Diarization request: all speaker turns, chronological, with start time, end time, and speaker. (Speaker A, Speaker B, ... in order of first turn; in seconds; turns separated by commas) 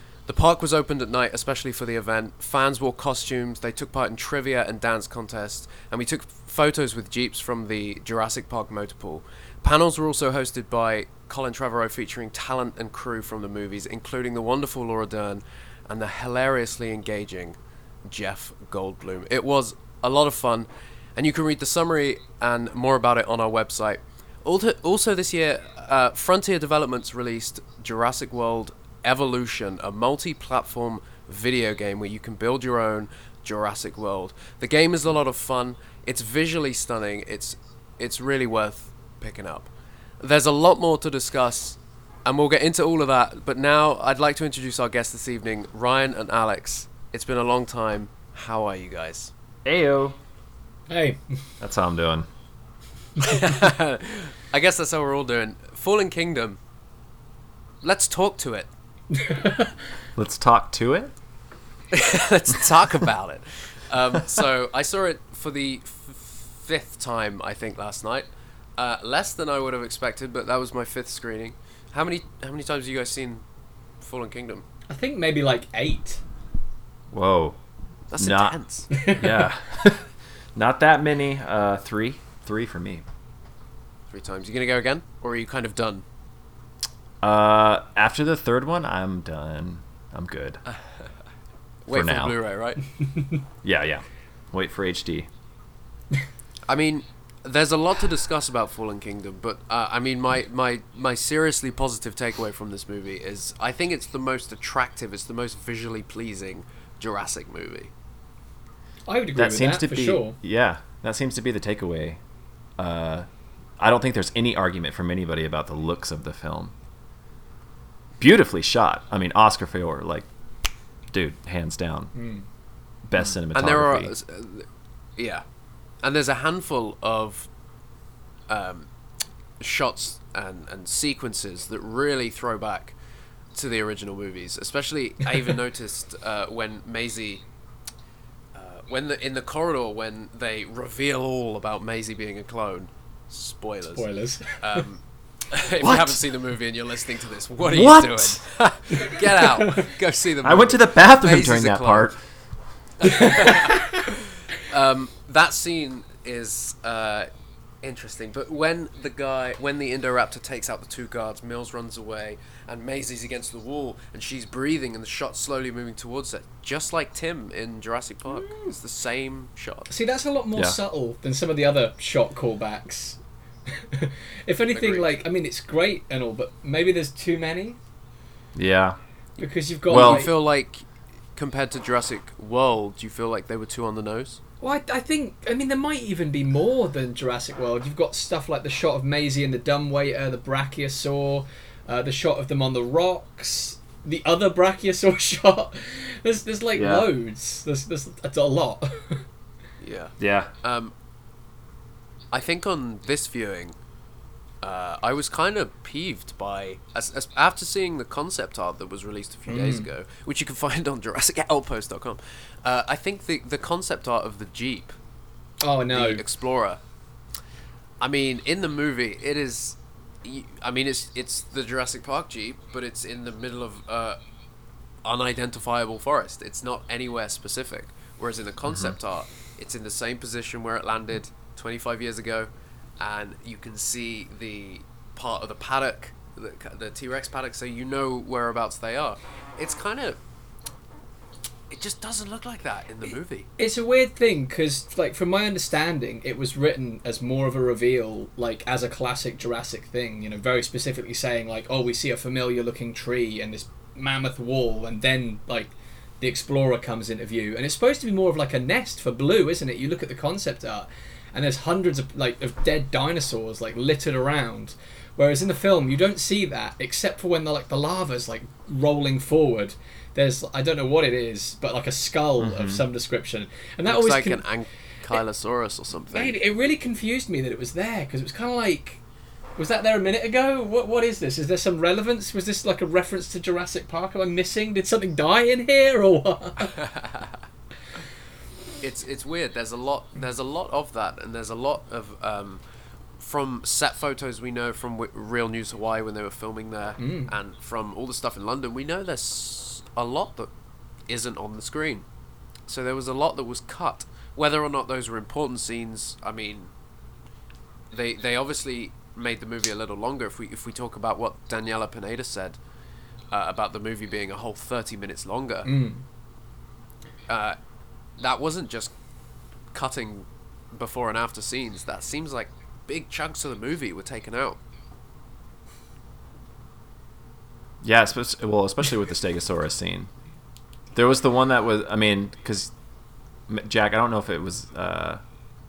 Speaker A: 0.3-39.7, Speaker A: 40.2-49.3, Speaker B: 49.6-50.2, Speaker C: 50.9-51.2, Speaker B: 51.6-52.3, Speaker A: 53.2-56.6, Speaker A: 57.8-58.7, Speaker C: 59.1-59.7, Speaker B: 60.1-61.1, Speaker A: 61.9-73.4, Speaker A: 74.0-74.7, Speaker C: 74.9-76.2, Speaker B: 77.1-77.6, Speaker A: 78.1-78.9, Speaker B: 78.2-78.5, Speaker C: 78.9-79.5, Speaker B: 79.1-83.0, Speaker A: 84.1-86.0, Speaker B: 87.2-90.6, Speaker A: 90.7-91.1, Speaker A: 91.8-92.8, Speaker B: 91.9-92.3, Speaker B: 93.6-95.3, Speaker A: 96.7-107.9, Speaker C: 109.1-110.3, Speaker B: 109.3-112.2, Speaker B: 112.8-113.3, Speaker B: 113.8-116.7, Speaker B: 118.2-120.3, Speaker B: 121.1-122.1, Speaker C: 122.1-122.4, Speaker B: 123.1-124.1, Speaker A: 123.5-125.4, Speaker A: 126.0-127.5, Speaker A: 128.5-128.9, Speaker A: 129.6-132.9, Speaker A: 133.5-137.4, Speaker A: 138.5-152.1, Speaker C: 143.9-144.8, Speaker B: 145.8-146.2, Speaker B: 147.6-148.4, Speaker C: 148.9-149.8, Speaker B: 150.4-152.2, Speaker A: 153.0-157.3, Speaker C: 153.0-154.0, Speaker A: 157.8-169.9, Speaker C: 168.3-168.7, Speaker C: 169.9-177.8, Speaker A: 174.7-175.2, Speaker B: 178.5-179.0, Speaker C: 179.4-180.3, Speaker B: 179.9-180.2, Speaker A: 179.9-184.4, Speaker C: 184.6-199.2, Speaker B: 196.8-197.0, Speaker A: 199.8-200.9, Speaker B: 200.2-200.5, Speaker A: 202.3-203.7, Speaker A: 204.6-214.9, Speaker C: 209.5-209.9, Speaker C: 215.6-216.2, Speaker A: 215.9-216.8, Speaker A: 218.0-224.2, Speaker A: 225.0-232.5, Speaker B: 228.7-229.0, Speaker A: 233.0-240.2, Speaker A: 241.7-243.5, Speaker C: 243.6-274.4, Speaker B: 272.4-272.8, Speaker A: 273.9-276.4, Speaker C: 276.1-279.0, Speaker C: 279.6-286.8, Speaker A: 286.6-287.3, Speaker A: 288.8-292.6, Speaker A: 293.2-300.5, Speaker C: 297.0-297.3, Speaker A: 301.1-302.0, Speaker A: 302.7-306.7, Speaker A: 307.9-312.6, Speaker A: 313.3-315.7, Speaker C: 315.6-316.0, Speaker A: 317.3-317.6, Speaker A: 318.2-318.9, Speaker A: 319.7-324.6, Speaker B: 327.8-330.1, Speaker B: 330.9-332.7, Speaker B: 333.5-335.2